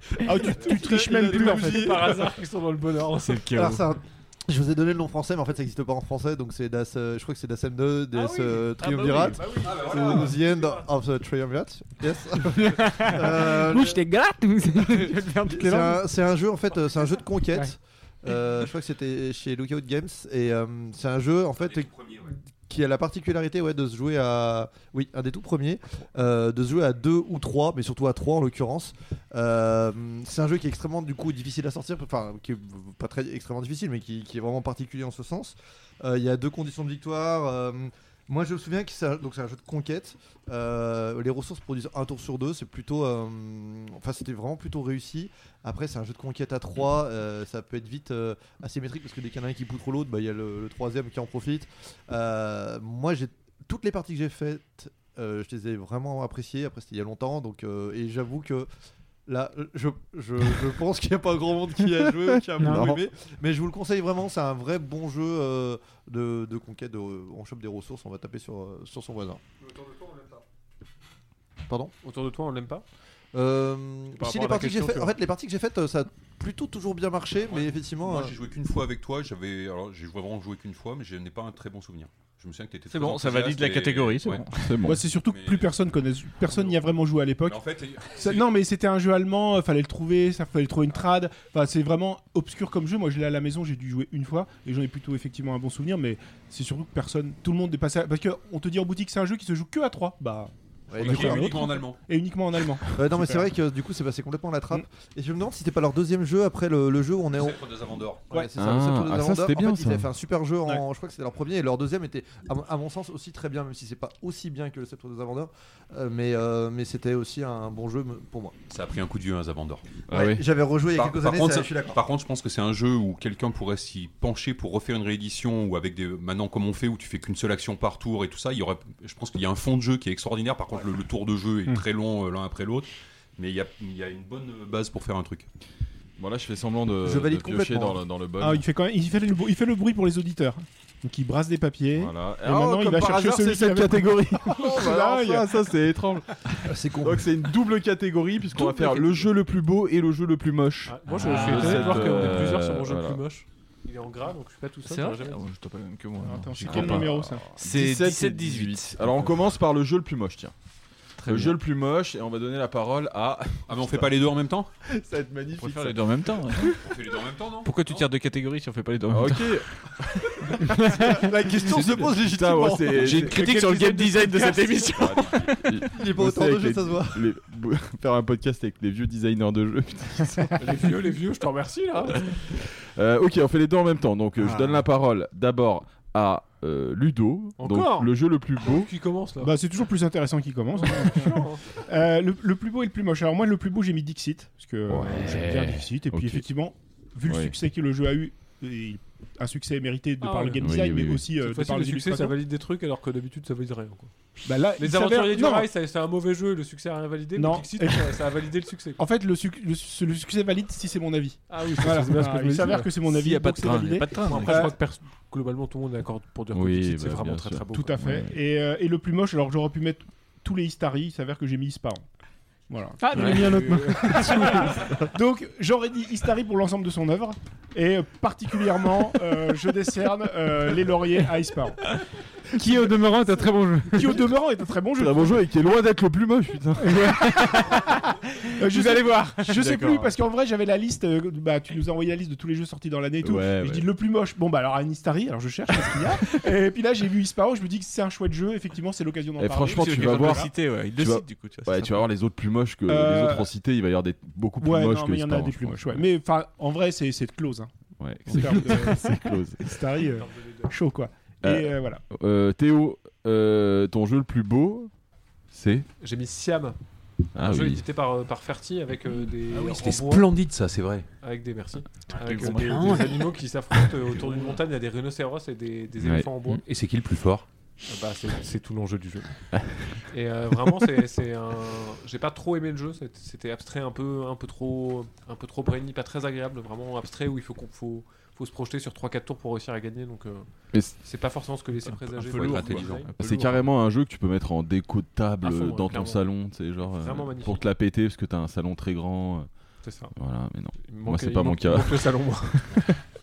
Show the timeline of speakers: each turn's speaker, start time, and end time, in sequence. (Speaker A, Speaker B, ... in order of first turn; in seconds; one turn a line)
Speaker A: 0.2-2.0
Speaker B: 0.3-2.3
Speaker C: 1.3-3.5
Speaker D: 3.2-3.9
Speaker B: 3.5-14.1
Speaker C: 8.1-10.8
Speaker E: 9.6-10.3
Speaker F: 12.4-16.1
Speaker B: 14.9-21.9
Speaker E: 21.6-22.3
Speaker B: 22.7-58.7
Speaker B: 59.3-69.4
Speaker F: 62.6-62.9
Speaker E: 69.7-70.3
Speaker B: 71.7-71.9
Speaker C: 72.0-72.8
Speaker B: 73.3-78.3
Speaker C: 74.2-75.1
Speaker E: 77.5-84.5
Speaker D: 82.9-84.8
Speaker G: 84.6-85.0
Speaker A: 84.8-103.5
Speaker E: 85.2-85.8
Speaker E: 86.5-86.8
Speaker E: 87.5-88.5
Speaker B: 100.9-101.6
Speaker E: 101.0-102.0
Speaker B: 103.0-107.7
Speaker E: 107.3-108.3
Speaker B: 108.3-118.6
Speaker G: 108.6-110.1
Speaker E: 118.7-119.8
Speaker G: 120.1-120.4
Speaker B: 120.1-122.0
Speaker E: 120.9-135.5
Speaker G: 136.2-138.6
Speaker B: 137.0-138.0
Speaker A: 138.4-145.6
Speaker G: 141.9-153.2
Speaker B: 146.7-147.2
Speaker A: 148.6-148.9
Speaker C: 150.9-155.4
Speaker D: 151.1-152.4
Speaker D: 154.9-159.4
Speaker A: 156.2-157.4
Speaker G: 156.6-160.5
Speaker D: 161.2-161.6
Speaker G: 161.3-164.1
Speaker E: 163.7-164.7
Speaker G: 164.9-166.0
Speaker D: 165.5-166.9
Speaker E: 166.8-168.1
Speaker D: 167.6-169.6
Speaker G: 169.1-169.7
Speaker G: 170.4-173.4
Speaker F: 170.8-171.1
Speaker B: 170.9-173.2
Speaker D: 172.9-175.6
Speaker C: 173.6-174.8
Speaker G: 175.0-180.6
Speaker B: 175.9-177.2
Speaker C: 180.6-182.4
Speaker G: 182.9-188.9
Speaker C: 187.6-189.6
Speaker A: 189.4-202.3
Speaker C: 190.8-191.6
Speaker G: 194.9-196.5
Speaker G: 197.3-197.5
Speaker C: 200.2-200.7
Speaker G: 200.6-201.2
Speaker C: 201.4-204.1
Speaker A: 204.4-205.7
Speaker C: 204.8-209.0
Speaker A: 207.4-208.2
Speaker A: 209.0-214.7
Speaker C: 211.5-212.9
Speaker D: 212.8-214.7
Speaker C: 214.2-218.0
Speaker G: 216.5-218.3
Speaker A: 217.7-222.0
Speaker A: 222.7-231.8
Speaker F: 223.0-224.8
Speaker D: 223.1-223.5
Speaker F: 232.5-234.3
Speaker A: 233.9-235.4
Speaker G: 235.0-237.0
Speaker F: 236.8-238.0
Speaker A: 238.6-250.5
Speaker F: 238.6-239.5
Speaker D: 239.6-240.1
Speaker G: 243.2-243.9
Speaker G: 249.4-256.0
Speaker D: 249.7-252.1
Speaker A: 252.9-253.5
Speaker A: 254.6-257.7
Speaker G: 258.0-259.6
Speaker A: 258.3-262.0
Speaker C: 260.0-260.7
Speaker G: 261.4-264.9
Speaker G: 265.5-265.9
Speaker C: 266.0-266.8
Speaker G: 267.4-267.8
Speaker C: 267.4-270.3
Speaker E: 269.6-271.1
Speaker C: 271.2-276.6
Speaker D: 272.2-273.2
Speaker G: 276.0-276.6
Speaker E: 276.6-277.4
Speaker C: 277.9-279.3
Speaker C: 280.0-290.5
Speaker C: 291.0-293.1
Speaker D: 291.8-293.6
Speaker E: 292.2-293.1
Speaker G: 293.2-299.5
Speaker C: 295.4-296.3
Speaker C: 296.8-297.6
Speaker C: 299.8-300.1
Speaker G: 300.2-302.1
Speaker C: 300.8-303.0